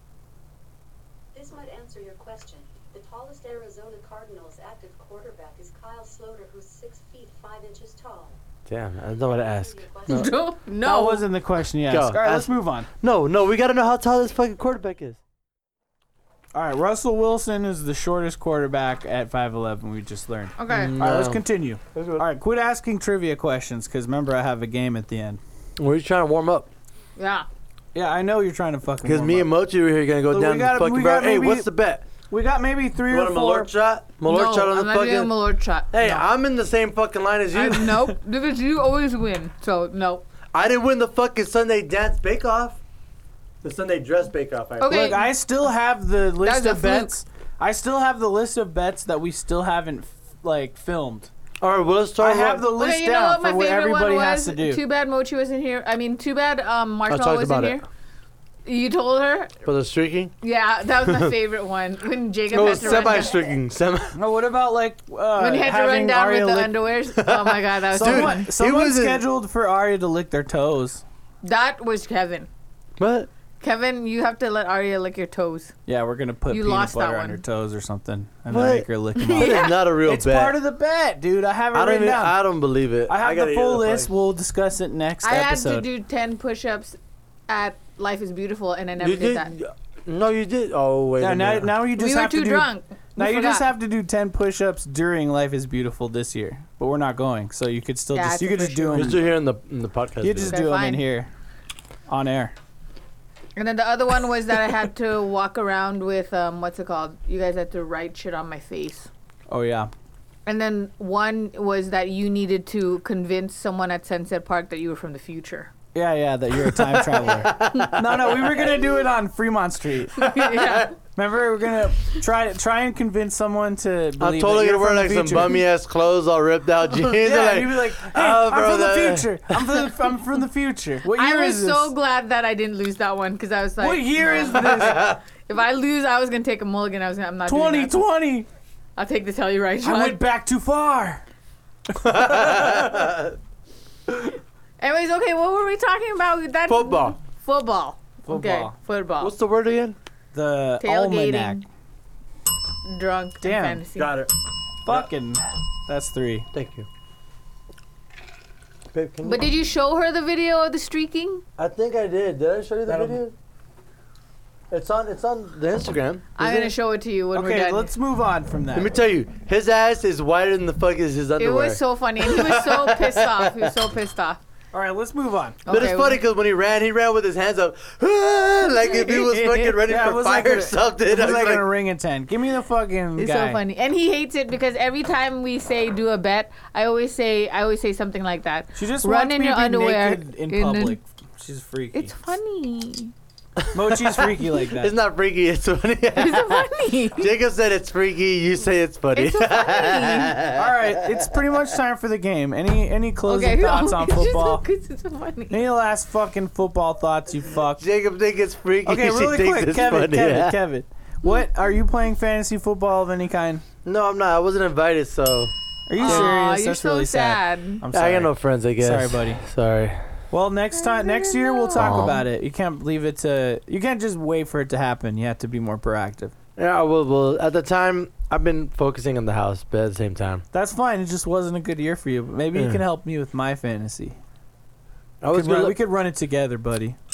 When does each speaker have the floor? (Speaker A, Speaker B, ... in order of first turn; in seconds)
Speaker A: 1.3-8.4, 9.3-10.3
Speaker B: 8.7-10.3, 11.9-12.5, 13.0-15.2, 20.7-21.4, 21.9-22.2, 25.8-26.7, 29.0-32.0, 33.1-35.3, 35.9-38.0, 40.5-42.8, 43.6-45.2, 51.6-52.7, 57.1-57.8, 59.6-60.3, 61.0-61.3, 62.5-64.2, 67.2-69.2, 73.0-73.3, 78.5-80.6, 81.7-84.1, 89.0-91.7, 98.9-100.6, 116.7-118.7, 120.3-120.9, 124.2-129.8, 134.5-135.2, 142.0-143.4, 146.7-147.2, 149.2-150.0, 153.9-154.3, 156.5-156.9, 158.9-159.5, 161.6-163.3, 164.7-166.7, 168.7-173.8, 175.7-181.7, 193.6-201.3, 207.8-210.6, 213.8-216.3, 217.9-220.1, 221.7-222.2, 226.6-230.4, 232.5-232.8, 235.2-235.8
Speaker C: 10.1-11.2, 20.6-21.0, 27.2-27.5, 34.2-36.2, 37.5-40.2, 44.8-45.3, 46.4-47.1, 52.7-57.8, 58.6-59.5, 60.4-63.5, 65.4-68.5, 71.4-72.5, 73.6-75.7, 76.5-77.4, 79.2-79.8, 85.2-89.5, 92.0-93.7, 98.1-99.2, 100.5-101.0, 103.5-109.1, 110.5-115.7, 120.2-120.9, 131.1-138.0, 138.9-140.2, 144.8-149.3, 150.8-151.6, 152.8-154.2, 159.2-161.4, 166.4-167.9, 171.4-174.4, 175.6-176.2, 178.7-179.8, 183.2-191.0, 191.9-193.1, 196.2-197.3, 199.1-200.4, 203.2-205.6, 216.0-217.8, 220.7-222.2
Speaker D: 10.8-12.9, 16.5-25.4, 27.9-29.5, 30.3-31.7, 32.3-33.7, 44.9-51.3, 52.2-54.8, 64.1-66.8, 67.9-71.0, 75.9-82.4, 83.1-85.9, 91.2-99.2, 100.2-101.3, 102.1-102.5, 109.5-109.9, 115.9-120.3, 121.1-125.6, 127.0-131.9, 133.8-135.1, 137.5-138.5, 139.8-141.2, 142.0-143.1, 148.3-148.7, 150.3-151.6, 153.4-153.8, 154.8-156.5, 162.9-163.2, 167.3-168.9, 174.7-175.6, 179.8-183.6, 188.8-192.1, 193.7-194.9, 200.5-204.6, 205.5-207.8, 208.8-213.6, 215.9-219.4, 220.3-226.3, 230.5-234.2, 235.3-237.0